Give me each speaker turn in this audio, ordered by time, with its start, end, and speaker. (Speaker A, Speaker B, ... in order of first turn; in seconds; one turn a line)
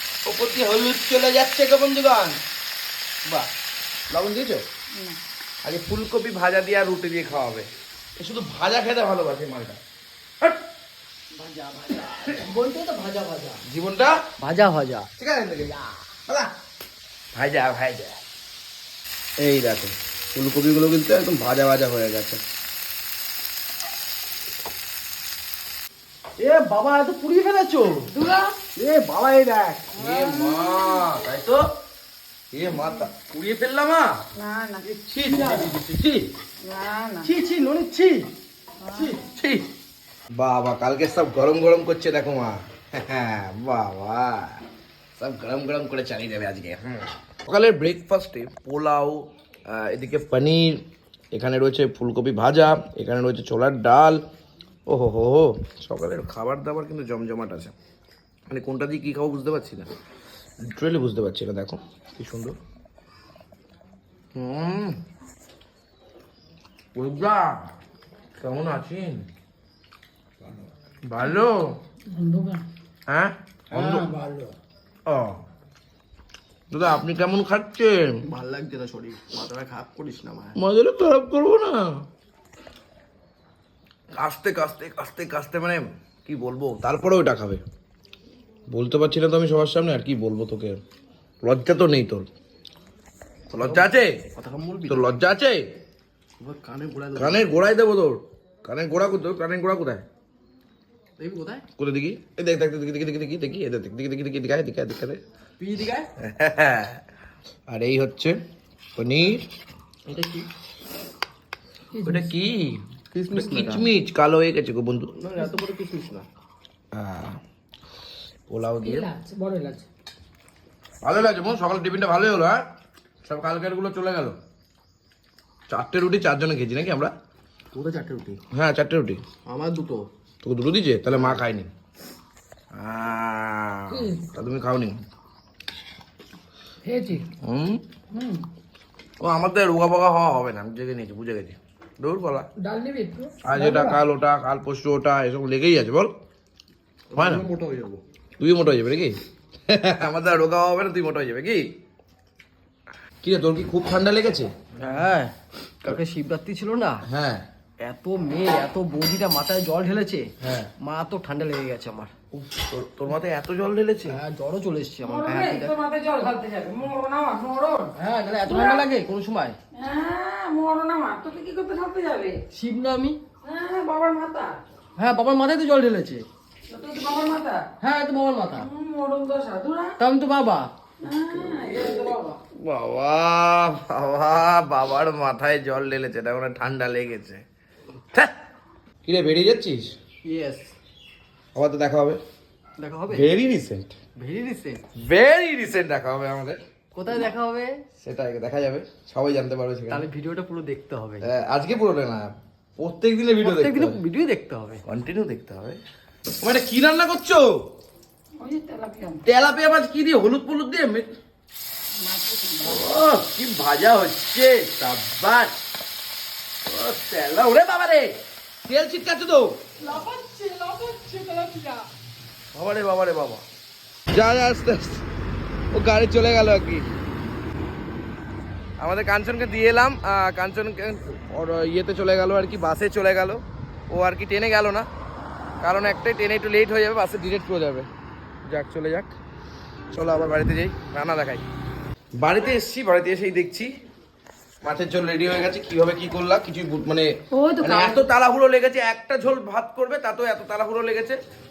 Speaker A: 0.2-2.4
Speaker A: 4.1-4.6
Speaker B: 4.9-5.2
Speaker A: 5.6-7.7
Speaker A: 8.2-9.8
Speaker C: 11.3-13.6
Speaker A: 12.1-12.4
Speaker A: 13.7-14.2
Speaker C: 14.4-15.1
Speaker A: 15.2-15.7
Speaker A: 17.4-18.2
Speaker A: 19.4-22.4
Speaker C: 26.4-28.1
Speaker B: 28.1-28.6
Speaker C: 28.8-29.9
Speaker B: 29.9-31.1
Speaker A: 29.9-31.6
Speaker A: 32.5-34.2
Speaker B: 32.7-33.0
Speaker B: 34.4-34.9
Speaker C: 34.8-35.9
Speaker A: 35.1-36.3
Speaker B: 36.6-37.3
Speaker C: 37.2-38.3
Speaker B: 38.8-39.2
Speaker C: 38.9-39.2
Speaker A: 39.3-39.7
Speaker A: 40.4-44.6
Speaker A: 45.2-50.8
Speaker A: 51.3-54.2
Speaker A: 54.9-57.7
Speaker A: 58.5-59.9
Speaker A: 60.6-62.5
Speaker A: 64.3-65.0
Speaker A: 67.0-67.6
Speaker A: 68.4-69.2
Speaker A: 71.1-71.8
Speaker B: 72.1-72.6
Speaker A: 73.1-74.1
Speaker C: 73.7-74.5
Speaker A: 75.1-75.4
Speaker A: 76.7-78.2
Speaker C: 78.2-80.6
Speaker A: 80.6-82.0
Speaker A: 84.1-87.6
Speaker A: 88.7-90.8
Speaker A: 91.4-92.3
Speaker A: 93.5-94.2
Speaker C: 93.6-95.3
Speaker A: 94.9-95.6
Speaker C: 96.4-97.5
Speaker A: 97.2-100.0
Speaker C: 101.2-101.7
Speaker A: 101.8-105.2
Speaker C: 105.6-106.1
Speaker A: 106.2-107.0
Speaker A: 107.7-108.3
Speaker A: 109.0-109.5
Speaker C: 110.1-110.5
Speaker B: 111.9-112.3
Speaker A: 112.0-115.1
Speaker C: 113.1-113.9
Speaker C: 115.2-116.3
Speaker A: 116.9-117.4
Speaker A: 118.5-119.1
Speaker B: 118.8-119.9
Speaker A: 121.0-122.6
Speaker A: 123.2-124.3
Speaker A: 125.7-127.1
Speaker C: 127.7-128.4
Speaker A: 128.5-129.2
Speaker C: 129.5-130.1
Speaker A: 130.4-131.7
Speaker C: 131.1-131.4
Speaker A: 132.8-135.0
Speaker B: 133.9-134.2
Speaker B: 136.8-137.3
Speaker A: 137.4-137.8
Speaker B: 138.1-138.4
Speaker A: 139.2-142.5
Speaker B: 142.6-144.0
Speaker A: 143.4-146.1
Speaker C: 147.1-148.0
Speaker A: 147.2-147.4
Speaker A: 148.4-149.2
Speaker A: 149.7-151.7
Speaker A: 153.2-154.5
Speaker C: 154.8-157.0
Speaker A: 157.1-157.4
Speaker C: 157.8-162.1
Speaker A: 160.4-160.7
Speaker A: 162.3-164.2
Speaker C: 164.1-165.7
Speaker B: 165.0-167.9
Speaker C: 168.0-169.6
Speaker B: 168.5-168.9
Speaker B: 169.7-172.4
Speaker C: 172.5-173.2
Speaker B: 173.4-174.6
Speaker C: 175.0-176.3
Speaker B: 176.7-177.7
Speaker C: 177.8-178.7
Speaker B: 178.5-180.0
Speaker C: 180.0-180.7
Speaker B: 181.0-182.2
Speaker C: 181.4-182.4
Speaker A: 182.6-187.4
Speaker A: 189.1-189.9
Speaker C: 190.2-190.7
Speaker A: 191.6-192.2
Speaker C: 192.8-193.3
Speaker A: 193.1-193.9
Speaker C: 194.2-194.8
Speaker A: 195.0-196.6
Speaker C: 196.9-197.7
Speaker A: 198.0-200.1
Speaker C: 199.9-201.2
Speaker A: 201.2-204.0
Speaker C: 203.4-204.8
Speaker A: 204.9-205.8
Speaker A: 206.4-207.6
Speaker B: 208.4-209.2
Speaker A: 209.3-211.1
Speaker B: 212.0-212.9
Speaker A: 212.6-215.5
Speaker A: 216.7-218.1
Speaker A: 218.7-219.5
Speaker C: 219.8-221.9
Speaker A: 222.5-223.4
Speaker A: 224.1-225.1
Speaker A: 225.7-226.9
Speaker A: 228.8-234.9
Speaker A: 235.6-237.9
Speaker A: 238.5-239.1
Speaker A: 239.9-241.4
Speaker A: 242.2-243.7
Speaker A: 244.6-247.1
Speaker B: 247.3-248.0
Speaker A: 247.6-251.2